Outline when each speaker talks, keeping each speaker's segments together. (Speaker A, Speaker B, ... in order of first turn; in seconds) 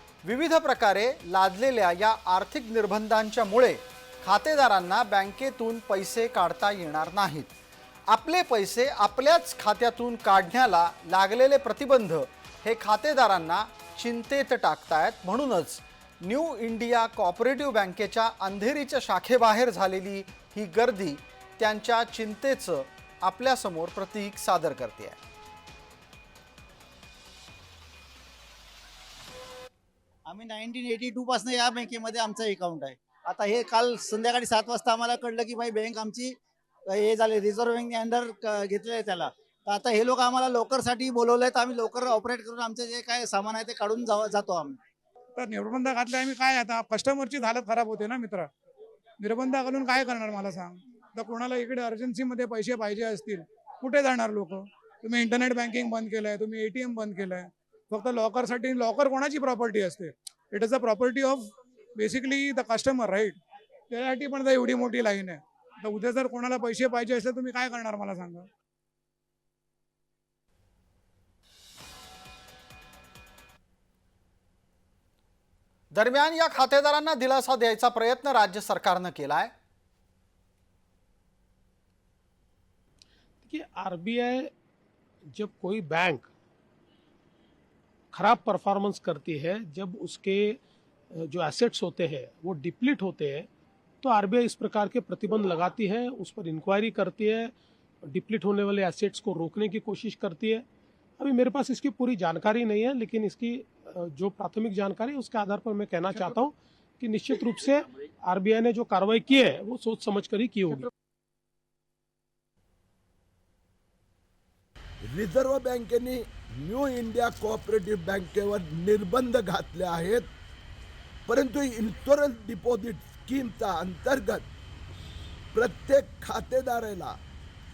Speaker A: 0.2-7.5, 8.1-25.2, 75.9-79.5
Speaker B: 30.3-36.4, 36.9-44.8
Speaker C: 45.4-48.5, 49.2-61.5, 62.0-63.4, 63.9-68.5
Speaker D: 83.4-84.5, 85.3-86.3, 88.1-90.6, 91.1-93.5, 94.0-97.5, 98.1-100.6, 101.2-110.9
Speaker E: 115.1-120.3, 121.2-124.5, 125.5-127.2